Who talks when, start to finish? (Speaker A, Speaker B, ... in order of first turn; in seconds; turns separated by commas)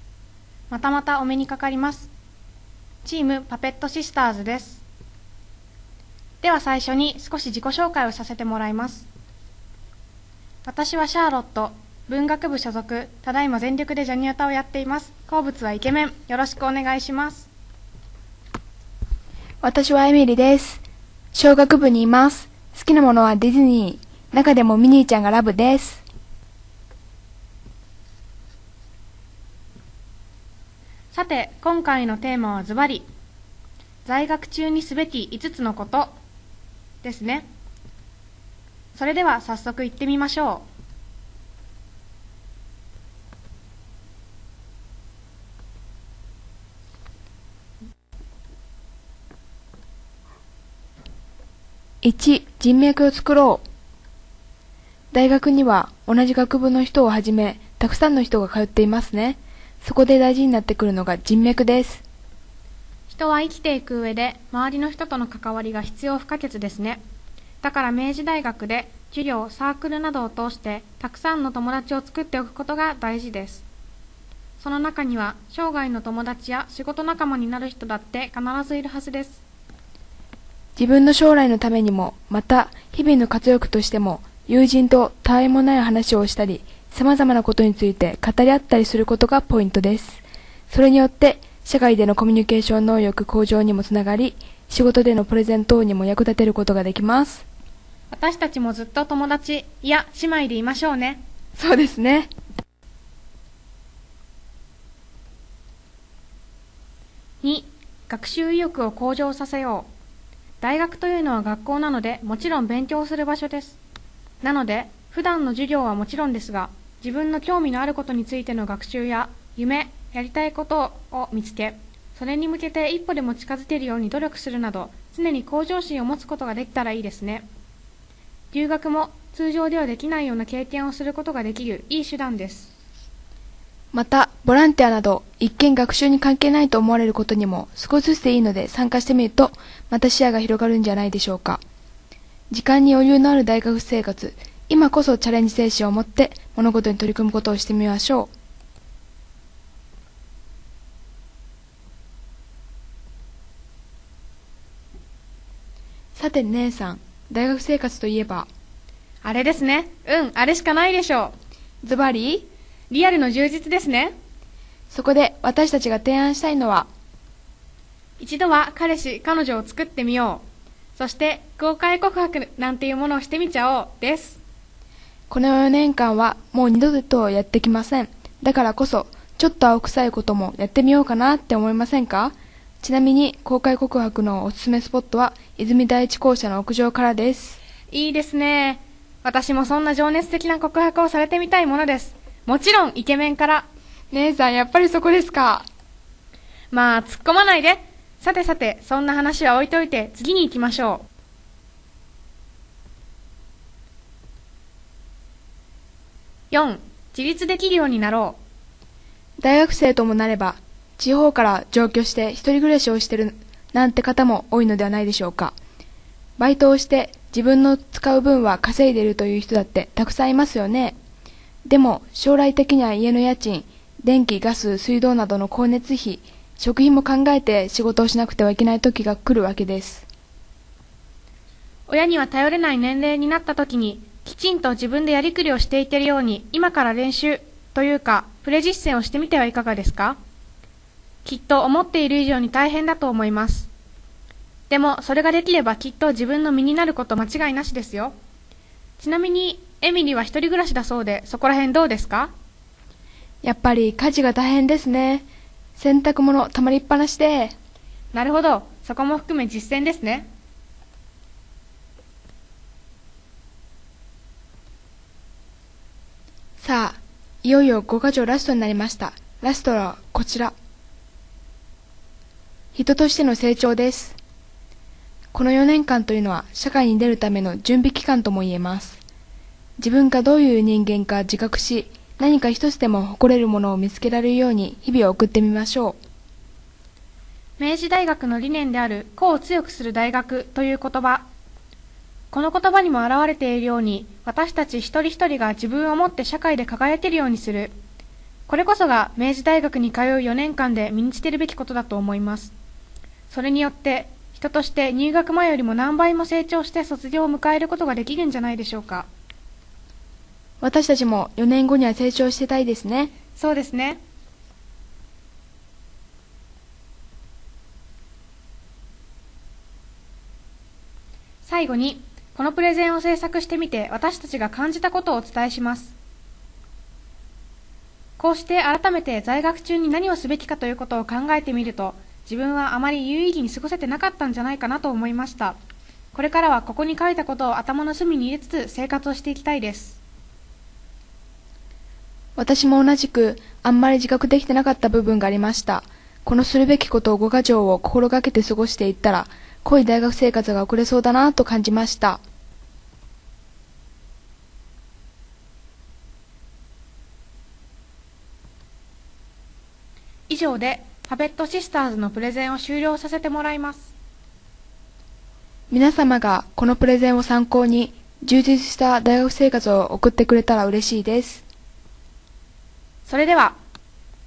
Speaker A: 0.7-2.1, Speaker A: 3.0-4.8, Speaker A: 6.4-9.1, Speaker A: 10.7-17.5, Speaker B: 19.6-20.8, Speaker B: 21.3-26.0, Speaker A: 31.1-33.1, Speaker A: 34.0-36.2, Speaker A: 37.0-37.5, Speaker A: 38.9-40.7, Speaker B: 52.0-53.6, Speaker B: 55.1-62.0, Speaker A: 63.1-67.0, Speaker A: 67.6-73.6, Speaker A: 74.6-79.4, Speaker B: 80.8-97.5, Speaker A: 98.1-101.2, Speaker B: 101.5-102.3, Speaker A: 107.4-109.9, Speaker A: 110.6-113.8, Speaker A: 114.4-127.5, Speaker A: 128.5-132.7, Speaker B: 133.9-141.6, Speaker B: 142.5-148.3, Speaker B: 156.2-158.5, Speaker A: 159.2-161.3, Speaker B: 161.8-162.5, Speaker A: 162.9-164.1, Speaker B: 164.9-166.9, Speaker A: 168.2-170.4, Speaker A: 170.9-174.4, Speaker B: 175.3-187.6, Speaker A: 187.9-193.7, Speaker B: 194.1-195.7, Speaker A: 196.7-201.1, Speaker A: 206.5-208.4, Speaker B: 209.4-215.5, Speaker B: 216.4-220.9, Speaker B: 221.7-230.1, Speaker A: 231.9-240.2, Speaker A: 241.2-243.7, Speaker A: 244.7-248.1, Speaker A: 249.0-252.3, Speaker B: 253.4-257.5, Speaker A: 258.1-260.3, Speaker B: 266.6-270.5, Speaker B: 272.7-274.2, Speaker B: 275.3-279.0, Speaker B: 279.8-286.0, Speaker A: 287.6-291.3, Speaker A: 292.3-297.7, Speaker A: 298.5-302.5, Speaker A: 303.3-309.1, Speaker B: 310.6-313.1, Speaker A: 313.3-314.0, Speaker A: 321.4-325.9, Speaker A: 328.2-335.6, Speaker A: 336.1-340.0, Speaker B: 342.4-352.2, Speaker A: 360.3-363.9, Speaker B: 365.7-371.4, Speaker A: 373.1-373.6